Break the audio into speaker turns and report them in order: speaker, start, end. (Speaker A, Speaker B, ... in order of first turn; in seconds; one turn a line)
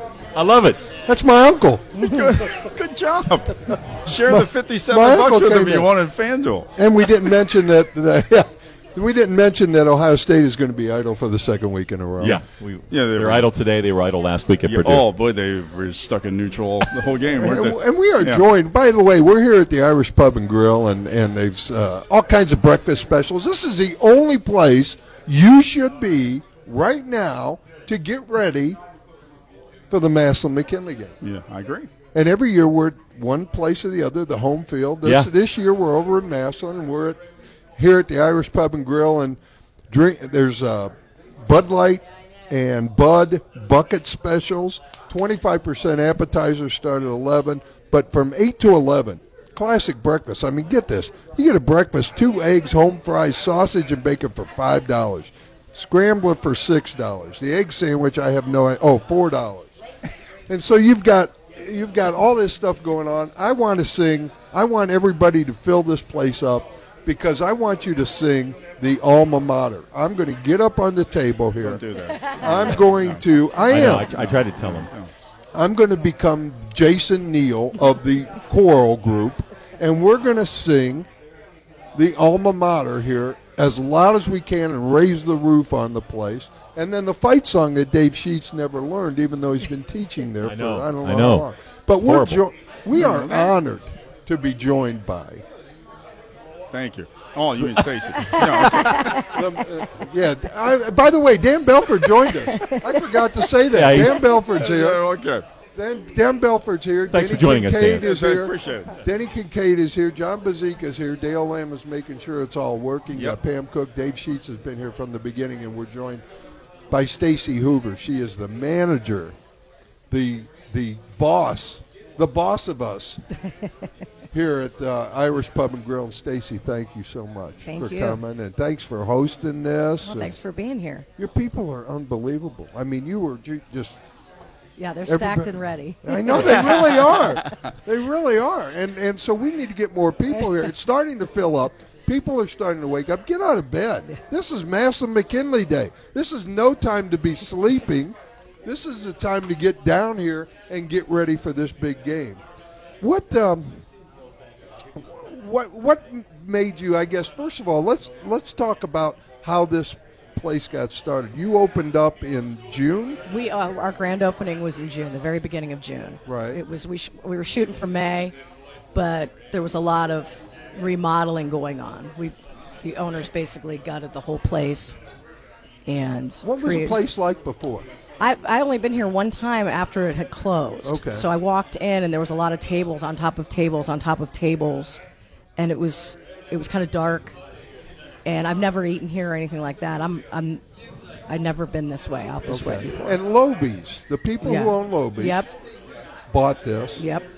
Speaker A: 0.3-0.8
Speaker B: 1.1-2.1
Speaker C: 2.0-6.7
Speaker D: 2.0-2.4
Speaker B: 4.3-5.9
Speaker B: 6.8-12.4
Speaker C: 12.2-13.5
Speaker A: 12.2-15.1
Speaker C: 14.7-18.4
Speaker B: 17.3-28.8
Speaker B: 29.9-31.2
Speaker C: 31.2-31.9
Speaker B: 32.1-37.2
Speaker A: 35.0-35.3
Speaker B: 37.8-39.4
Speaker B: 39.9-59.8
Speaker B: 60.5-71.8
Speaker C: 71.6-75.1
Speaker D: 72.0-72.8
Speaker B: 72.4-74.1
Speaker A: 73.6-74.9
Speaker B: 75.5-81.1
Speaker B: 82.0-95.4
Speaker A: 90.4-91.5
Speaker A: 92.0-92.4
Speaker C: 92.9-93.5
Speaker C: 96.7-99.3
Speaker D: 98.2-99.4
Speaker B: 99.1-105.0
Speaker D: 102.5-103.0
Speaker A: 103.7-104.2
Speaker C: 103.9-105.4
Speaker B: 105.8-116.2
Speaker A: 107.1-108.1
Speaker C: 107.8-109.0
Speaker C: 113.1-113.4
Speaker B: 116.9-119.4
Speaker B: 120.1-123.2
Speaker B: 124.3-130.4
Speaker D: 127.7-128.2
Speaker D: 130.0-131.1
Speaker B: 131.2-134.0
Speaker D: 134.8-137.5
Speaker B: 135.1-152.4
Speaker B: 153.0-153.8
Speaker B: 154.9-163.2
Speaker D: 163.3-168.3
Speaker B: 166.3-166.6
Speaker D: 168.9-175.0
Speaker D: 175.9-177.0
Speaker B: 176.4-177.9
Speaker D: 178.2-185.0
Speaker B: 180.8-181.3
Speaker D: 185.6-187.4
Speaker D: 188.2-190.6
Speaker D: 191.3-193.2
Speaker B: 192.5-195.4
Speaker D: 194.4-195.5
Speaker B: 196.3-197.1
Speaker D: 197.0-197.3